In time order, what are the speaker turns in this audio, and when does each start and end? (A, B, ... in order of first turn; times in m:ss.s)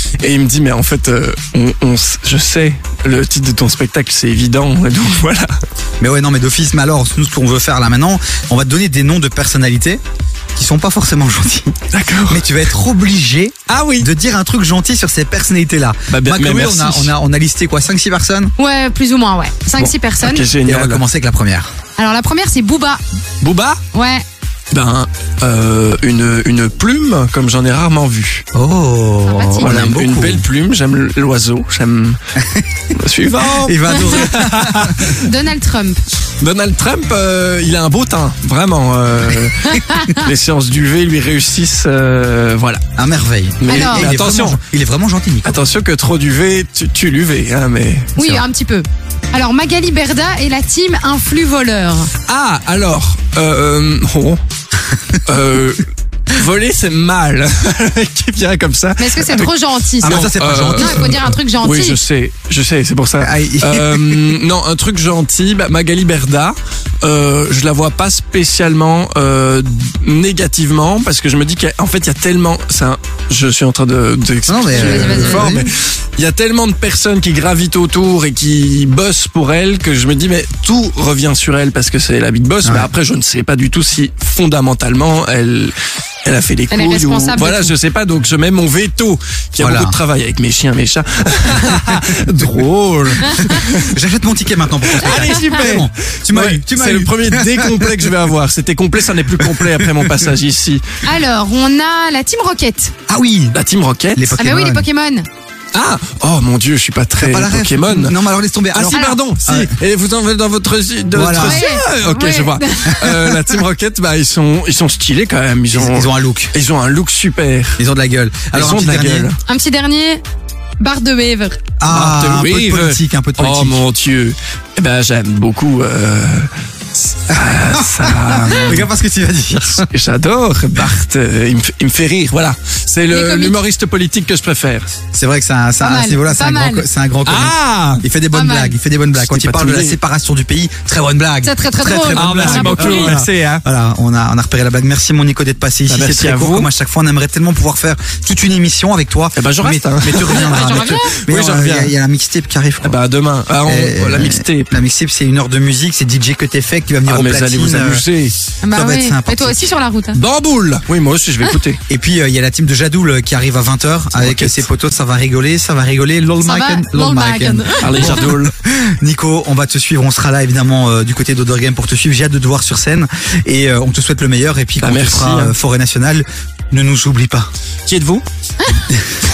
0:00.2-0:05.5 A
0:06.0-0:10.0 B
0:10.6-0:11.7 B
0:11.9-0:12.4 A
0:12.3-0:18.5 B
0:13.7-0:14.1 A
0:16.1-0:17.1 A
0:18.6-0:20.4 C
0:19.8-0:21.0 A
0:20.6-0:21.7 B
0:22.0-0:23.0 C
0:23.4-0:23.8 A
0:23.9-0:24.2 C
0:24.7-0:28.4 A
0:28.5-0:30.4 B
0:29.2-0:29.8 C
0:29.6-0:32.2 A
0:32.4-0:32.6 B
0:32.9-0:35.3 A
0:33.4-0:35.2 B
0:35.2-0:36.0 C
0:36.4-0:42.8 A
0:39.8-0:40.2 C
0:43.0-0:45.6 B
0:43.6-0:44.6 A
0:43.7-0:44.1 C
0:45.4-0:48.1 A
0:48.2-0:52.1 C
0:48.2-0:48.4 B
0:52.2-0:54.4 A
0:55.2-1:33.9 A
0:59.0-1:00.2 C
1:00.0-1:01.3 B
1:00.8-1:02.0 C
1:03.2-1:04.4 B
1:14.5-1:15.7 B
1:14.7-1:15.6 C
1:26.7-1:27.7 C
1:29.6-1:30.0 B
1:33.2-1:38.1 B
1:34.9-1:40.8 A
1:35.1-1:35.6 C
1:39.4-1:40.3 B
1:41.1-1:43.0 C
1:43.1-1:43.6 B
1:43.5-1:44.4 A
1:44.1-1:44.8 B
1:44.4-1:45.3 C
1:45.7-1:48.2 A
1:47.2-1:49.7 B
1:48.7-1:57.8 A
1:48.9-1:49.2 C
1:51.1-1:51.7 B
1:51.4-1:52.9 C
1:53.0-1:53.6 B
1:55.7-1:56.5 B
1:57.8-1:59.3 B
1:58.5-1:59.4 A
1:59.5-2:00.2 C
2:00.8-2:01.6 C
2:01.8-2:03.8 B
2:01.9-2:08.9 A
2:07.3-2:09.9 B
2:09.6-2:14.9 A
2:13.1-2:13.5 C
2:15.1-2:33.0 B
2:15.8-2:16.9 C
2:17.2-2:18.0 A
2:18.3-2:18.8 C
2:19.1-2:20.0 A
2:21.4-2:23.1 C
2:22.1-2:23.6 A
2:25.9-2:26.7 A
2:29.3-2:31.9 A
2:30.3-2:31.1 C
2:32.8-2:34.7 A
2:33.6-2:38.0 B
2:37.0-2:38.4 A
2:38.6-2:40.2 C
2:38.7-2:39.6 B
2:40.1-2:41.8 A
2:41.9-2:57.5 B
2:44.1-2:44.7 A
2:46.4-2:48.1 C
2:47.8-2:48.5 A
2:54.8-2:55.6 A
2:57.9-2:58.2 A